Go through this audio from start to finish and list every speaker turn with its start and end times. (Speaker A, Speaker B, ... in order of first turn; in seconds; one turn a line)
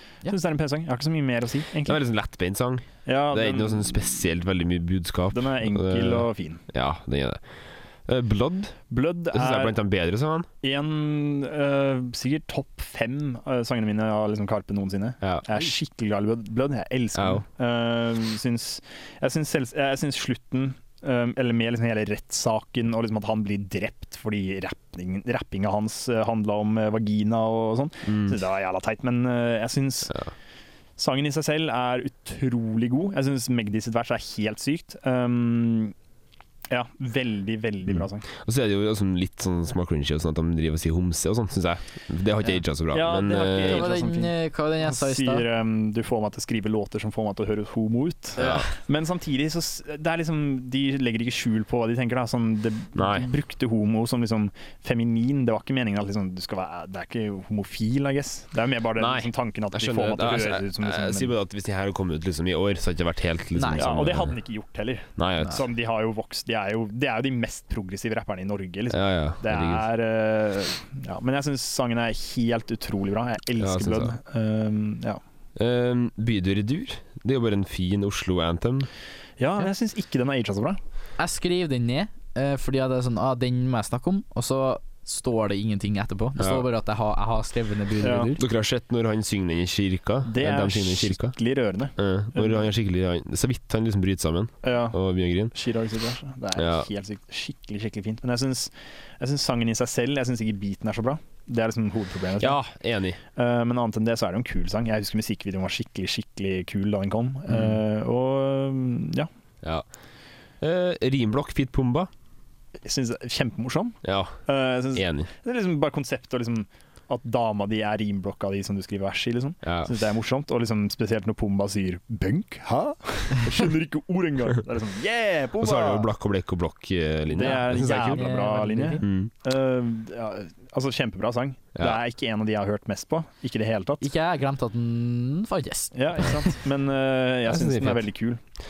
Speaker A: 0.3-2.0
Speaker B: 1.9-7.4
Speaker A: 3.1-4.2
Speaker A: 5.3-6.6
Speaker B: 8.1-8.8
Speaker A: 8.9-9.8
Speaker B: 9.3-10.5
Speaker A: 10.6-30.2
Speaker B: 17.1-17.4
Speaker B: 28.1-28.4
Speaker A: 31.0-35.9
Speaker A: 36.7-38.3
Speaker B: 37.9-43.9
Speaker A: 42.9-61.3
Speaker C: 43.6-45.5
Speaker B: 48.4-48.7
Speaker C: 48.4-48.8
Speaker B: 53.0-53.3
Speaker B: 59.0-64.3
Speaker C: 63.5-63.9
Speaker A: 63.7-75.2
Speaker B: 65.2-65.6
Speaker B: 68.9-69.9
Speaker B: 73.6-74.1
Speaker B: 75.6-78.9
Speaker A: 79.4-80.8
Speaker C: 81.2-88.4
Speaker B: 86.4-86.7
Speaker A: 88.0-88.3
Speaker B: 88.3-91.3
Speaker A: 90.2-92.7
Speaker B: 92.0-95.5
Speaker A: 94.6-95.0
Speaker A: 95.5-102.6
Speaker B: 96.6-96.9
Speaker B: 102.4-103.2
Speaker A: 103.4-109.3
Speaker B: 107.5-107.8
Speaker B: 110.6-112.1
Speaker A: 112.8-126.1
Speaker B: 114.0-114.4
Speaker B: 114.9-115.3
Speaker B: 119.6-119.9
Speaker B: 125.6-128.3
Speaker A: 127.3-134.1
Speaker C: 127.4-129.0
Speaker B: 129.0-129.3
Speaker C: 134.0-136.5
Speaker A: 135.9-138.4
Speaker B: 137.5-138.1